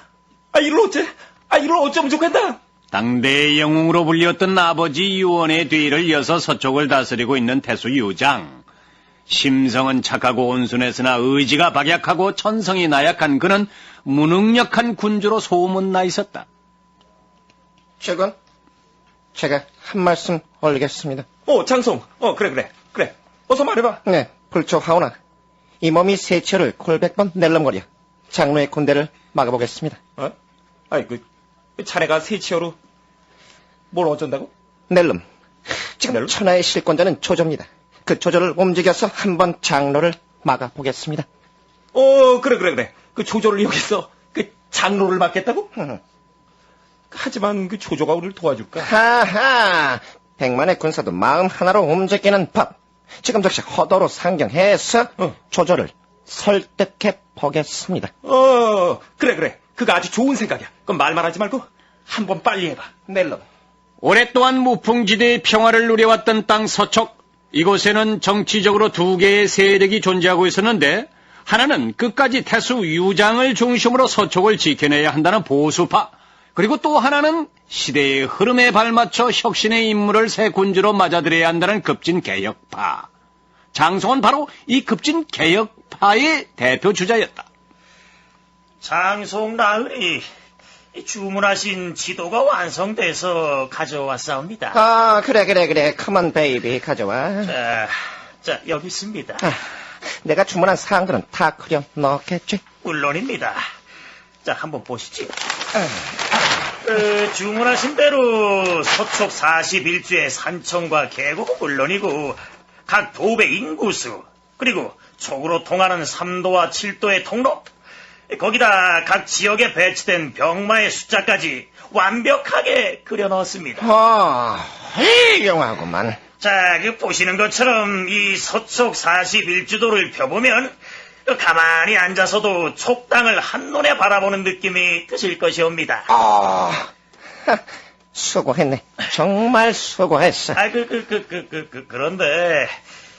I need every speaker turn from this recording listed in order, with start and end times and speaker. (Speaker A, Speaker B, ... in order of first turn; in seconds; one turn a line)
Speaker A: 0.5-2.6
Speaker B: 2.9-8.6
Speaker B: 9.3-16.4
Speaker C: 18.0-18.3
Speaker C: 19.3-21.2
Speaker A: 21.4-24.0
Speaker C: 24.0-25.1
Speaker C: 25.8-30.0
Speaker A: 30.9-31.2
Speaker A: 31.8-32.8
Speaker A: 33.9-34.5
Speaker C: 34.9-35.2
Speaker C: 35.8-41.2
Speaker A: 36.1-36.3
Speaker A: 41.9-45.7
Speaker C: 45.7-46.0
Speaker A: 47.1-48.9
Speaker C: 48.8-58.1
Speaker A: 58.2-62.9
Speaker C: 63.1-63.4
Speaker B: 64.0-83.1
Speaker B: 83.7-87.5
Speaker D: 88.8-90.2
Speaker D: 90.9-94.8
Speaker C: 94.7-97.5
Speaker D: 97.4-99.5
Speaker C: 99.4-99.6
Speaker C: 100.2-102.6
Speaker D: 102.8-103.6
Speaker D: 104.4-105.3
Speaker D: 106.8-117.7
Speaker D: 118.3-123.9
Speaker C: 123.8-126.2
Speaker D: 126.4-130.7
Speaker D: 131.3-136.1
Speaker C: 136.1-136.9
Speaker C: 138.1-140.6
Speaker D: 140.6-142.8